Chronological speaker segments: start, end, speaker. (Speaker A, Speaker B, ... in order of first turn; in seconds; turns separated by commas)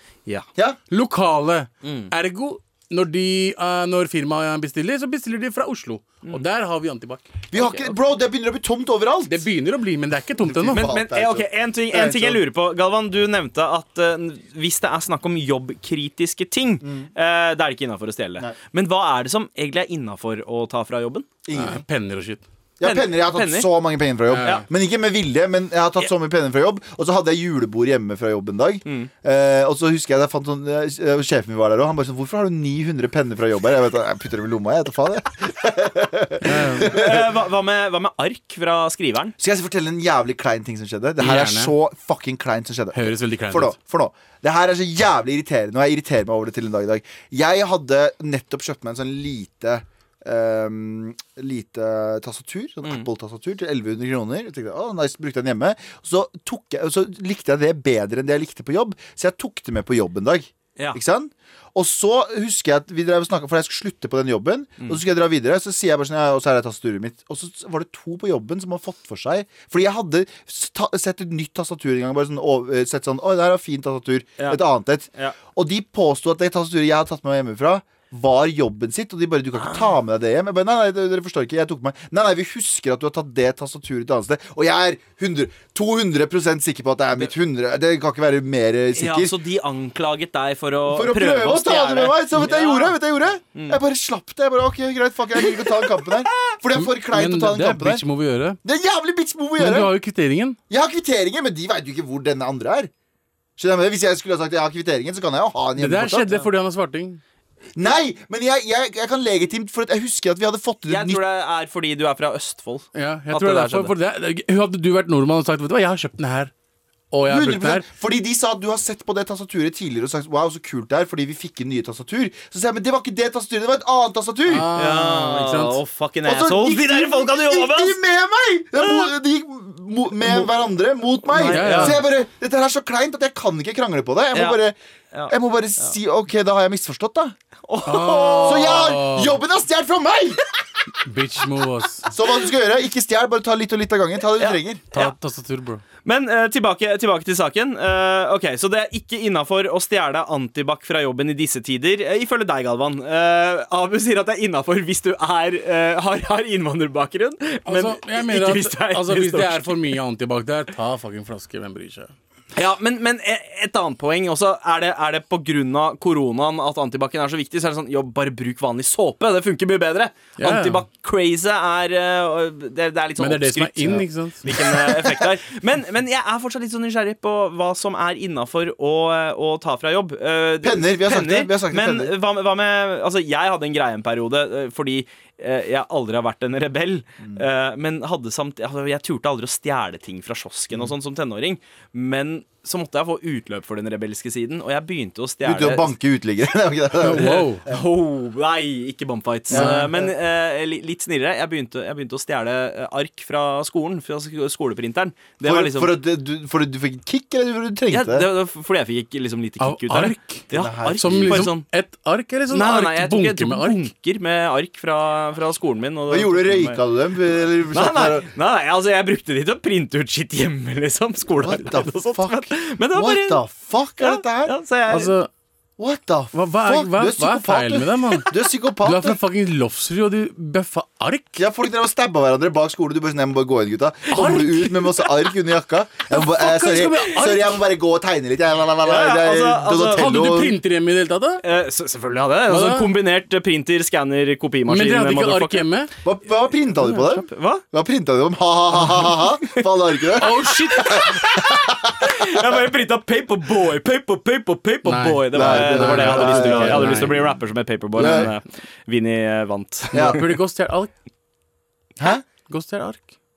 Speaker A: 0.9-7.3, Speaker B: 1.8-2.1, Speaker C: 7.5-9.4, Speaker B: 7.5-7.9, Speaker A: 9.3-10.8, Speaker C: 10.4-12.4, Speaker B: 10.7-21.3, Speaker C: 21.4-21.8, Speaker A: 21.5-22.4, Speaker C: 22.8-37.3, Speaker B: 22.8-23.7, Speaker A: 24.3-24.6, Speaker A: 36.4-36.9, Speaker B: 36.8-39.3, Speaker C: 39.4-89.3, Speaker A: 41.2-41.7, Speaker A: 42.9-43.7, Speaker B: 79.6-79.9, Speaker B: 89.0-93.0, Speaker C: 90.9-98.0, Speaker B: 95.4-95.8, Speaker A: 96.7-98.6, Speaker C: 98.6-99.9, Speaker A: 99.6-100.6, Speaker C: 100.7-102.9, Speaker C: 103.6-106.3, Speaker A: 105.8-107.2, Speaker C: 107.7-111.2, Speaker B: 110.9-113.9, Speaker A: 112.9-116.5, Speaker A: 117.1-117.9, Speaker C: 117.2-124.7, Speaker A: 124.5-125.8, Speaker B: 124.7-128.0, Speaker C: 126.2-134.8, Speaker B: 128.8-129.1, Speaker B: 131.3-132.0, Speaker A: 131.4-132.0, Speaker B: 134.3-134.6, Speaker B: 135.1-135.9, Speaker C: 135.3-137.3, Speaker B: 137.7-138.8, Speaker A: 137.8-139.4, Speaker C: 138.4-140.4, Speaker A: 141.0-142.1, Speaker C: 142.1-144.8, Speaker B: 144.4-145.1, Speaker A: 144.9-145.8, Speaker B: 146.0-159.9, Speaker A: 157.7-162.1, Speaker B: 162.5-195.9, Speaker A: 170.4-170.8, Speaker A: 173.2-174.5, Speaker C: 174.5-175.2, Speaker C: 180.6-182.1, Speaker C: 195.4-197.8, Speaker A: 197.0-197.6, Speaker B: 197.2-206.0, Speaker C: 199.5-200.1, Speaker A: 199.5-199.9, Speaker C: 205.4-208.3, Speaker B: 207.9-211.6, Speaker A: 209.6-213.8, Speaker C: 210.5-211.5, Speaker B: 212.5-216.8, Speaker C: 216.1-218.3, Speaker B: 217.7-223.4, Speaker C: 221.4-224.5, Speaker B: 224.0-225.1, Speaker A: 224.9-225.3, Speaker C: 225.8-229.2, Speaker A: 226.3-231.3, Speaker C: 231.3-240.6, Speaker A: 234.1-234.7, Speaker A: 236.1-237.6, Speaker B: 238.8-240.1, Speaker A: 239.9-241.4, Speaker B: 241.4-245.7, Speaker A: 242.5-242.9, Speaker A: 244.7-245.9, Speaker C: 246.0-252.4, Speaker B: 246.8-247.6, Speaker A: 250.2-251.4, Speaker B: 252.0-260.2, Speaker A: 254.8-257.2, Speaker C: 255.3-257.3, Speaker C: 257.9-258.3, Speaker A: 258.0-258.3, Speaker C: 259.9-260.2, Speaker A: 259.9-260.9, Speaker C: 262.0-262.2, Speaker A: 262.5-263.1